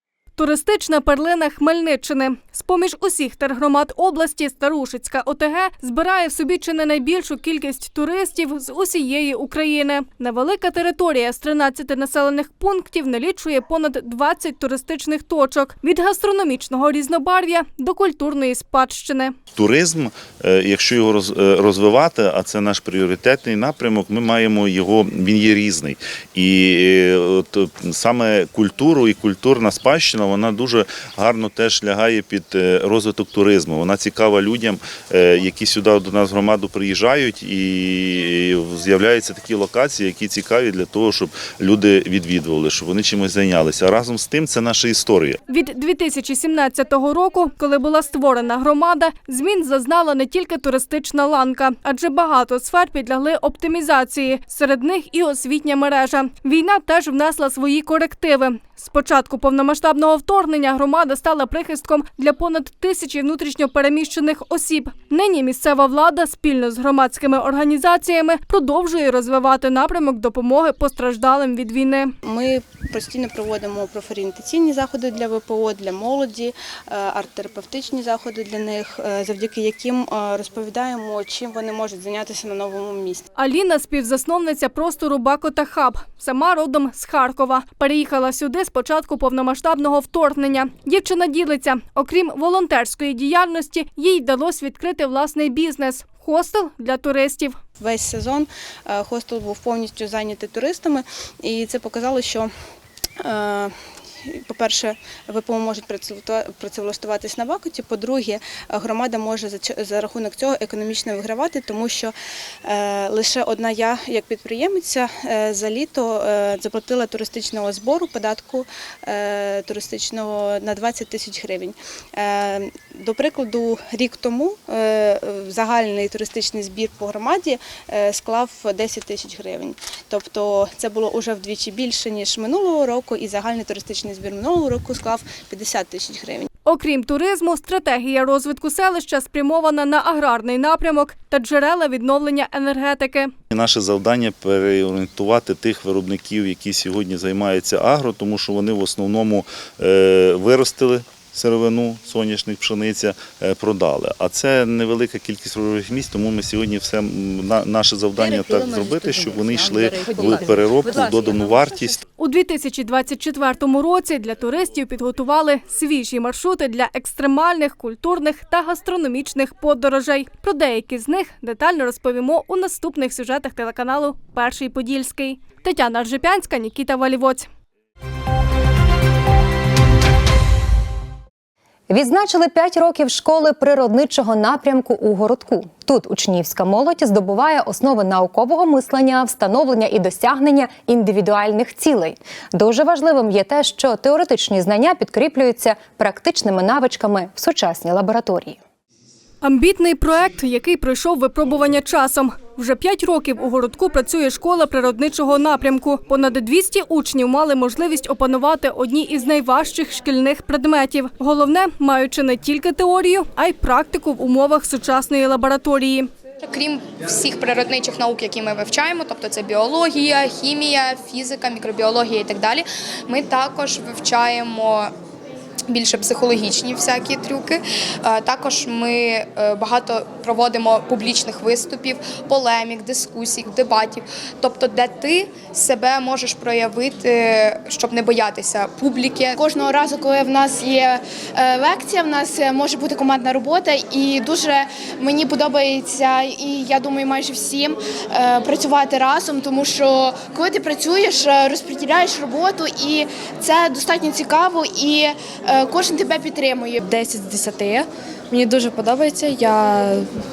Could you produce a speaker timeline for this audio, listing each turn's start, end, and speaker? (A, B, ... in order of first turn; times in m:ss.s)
0:00.4-0:19.3 A
0:19.6-0:45.4 B
0:45.5-1:12.2 A
1:12.2-1:23.2 C
1:23.4-1:37.6 A
1:37.8-1:42.5 C
1:43.2-1:43.7 C
1:44.3-1:52.1 C
1:52.6-2:16.5 C
2:16.7-2:23.3 A
2:23.5-2:42.0 B
2:42.2-2:57.5 A
3:01.9-3:18.6 D
3:19.4-3:36.1 A
3:36.5-3:44.9 E
3:45.7-3:59.4 E
3:59.4-4:16.8 F
4:16.8-4:17.8 G
4:18.3-4:20.0 G